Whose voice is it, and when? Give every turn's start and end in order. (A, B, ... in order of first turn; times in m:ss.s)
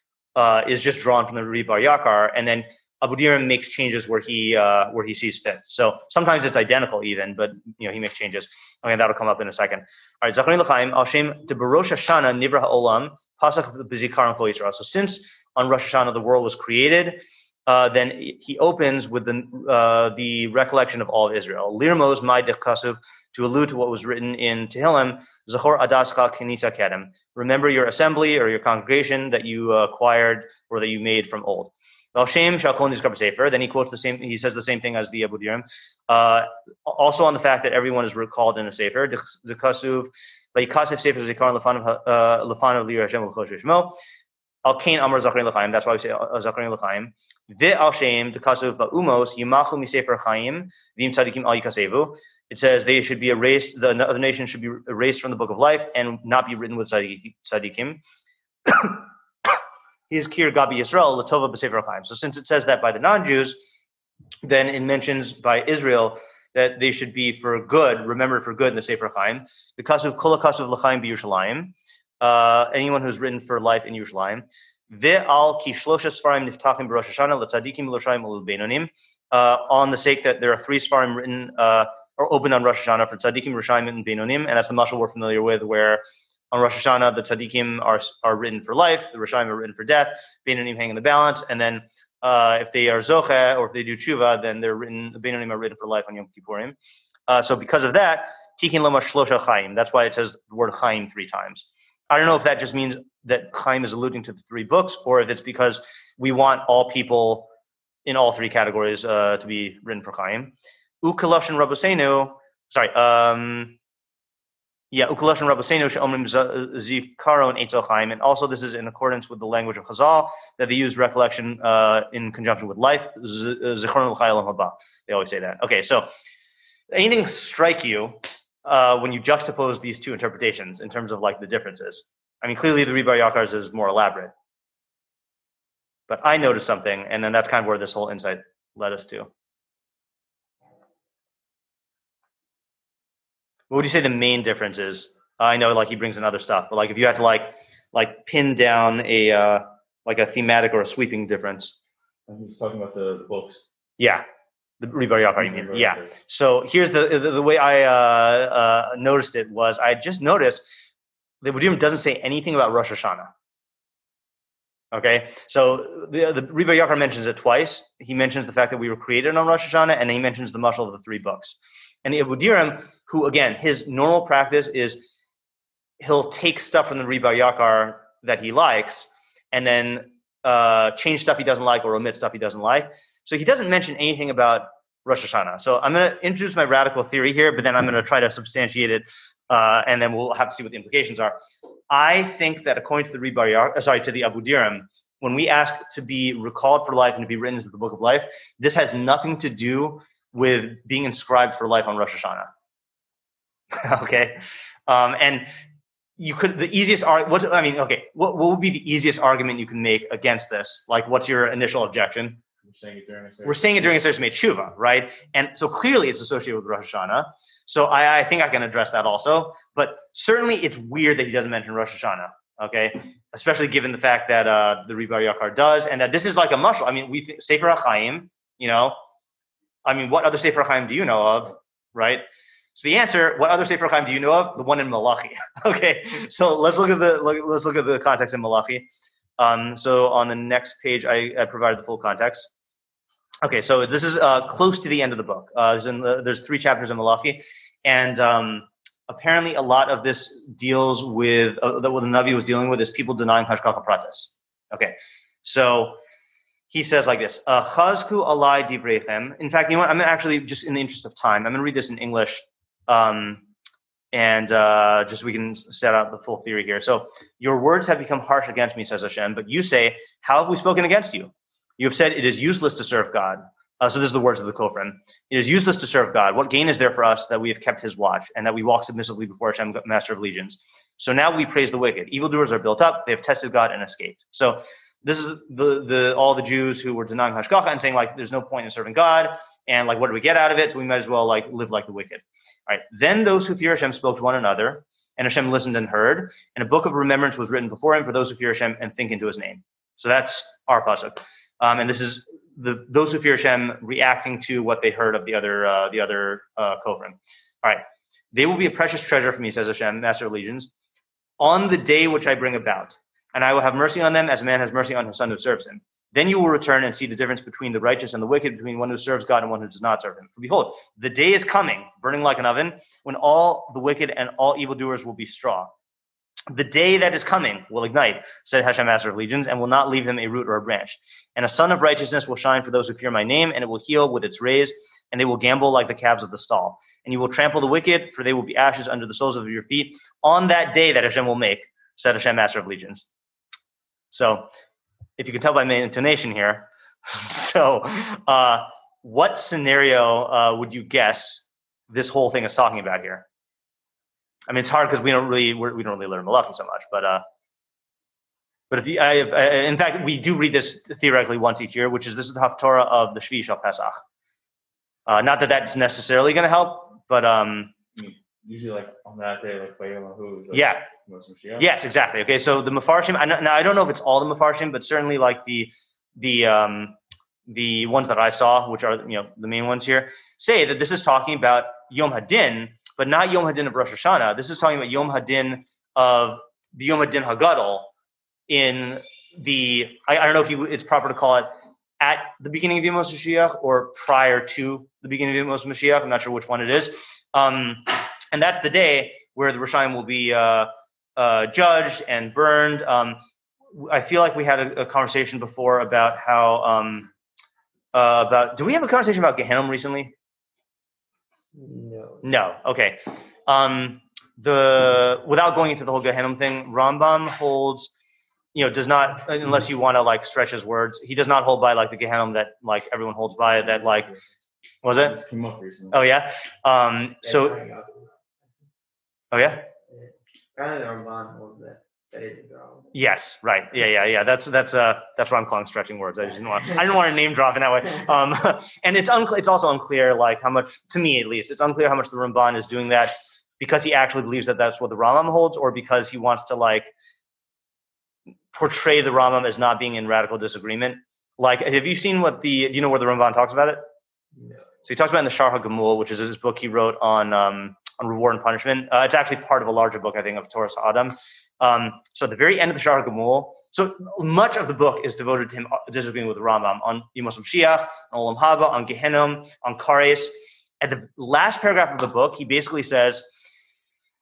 0:00.4-0:44.0 A
0:44.6-0:58.0 A
0:58.6-0:59.6 A
1:00.1-1:03.6 A
1:04.4-1:36.8 A
1:37.3-1:47.5 A
1:48.0-1:53.8 A
1:54.9-2:06.1 A
2:06.9-2:14.3 A
2:16.1-2:19.3 A
2:23.7-2:31.8 A
2:32.3-2:33.6 B
2:34.0-2:34.2 A
2:34.8-2:40.6 A
2:35.4-2:36.1 B
2:41.4-2:43.3 A
2:44.9-2:55.1 A
2:56.0-3:11.4 A
3:11.9-3:22.5 A
3:23.7-3:25.5 A
3:26.2-3:32.4 A
3:32.6-3:34.0 B
3:33.4-3:49.0 A
3:49.8-3:52.2 A
3:52.7-3:58.8 A
3:59.4-4:02.5 A
4:03.4-4:16.0 A
4:16.7-4:23.4 A
4:24.1-5:10.7 A
5:11.4-5:25.7 A
5:26.5-5:43.0 A
5:44.1-5:44.5 A
5:45.2-5:53.2 A
5:54.5-5:57.2 A
5:58.7-6:04.0 A
6:05.1-6:07.7 A
6:08.0-6:11.7 B
6:10.5-6:10.9 A
6:11.6-6:27.9 A
6:28.5-6:43.2 A
6:43.7-6:47.1 A
6:47.9-6:50.1 A
6:51.5-6:52.2 C
6:52.2-6:57.9 A
6:58.5-7:04.1 A
7:04.8-7:05.2 A
7:04.9-7:06.0 B
7:05.9-7:07.6 A
7:07.2-7:08.1 C
7:09.3-7:09.6 A
7:09.9-7:12.9 C
7:12.9-7:26.9 A
7:28.5-7:33.8 A
7:34.8-7:53.3 A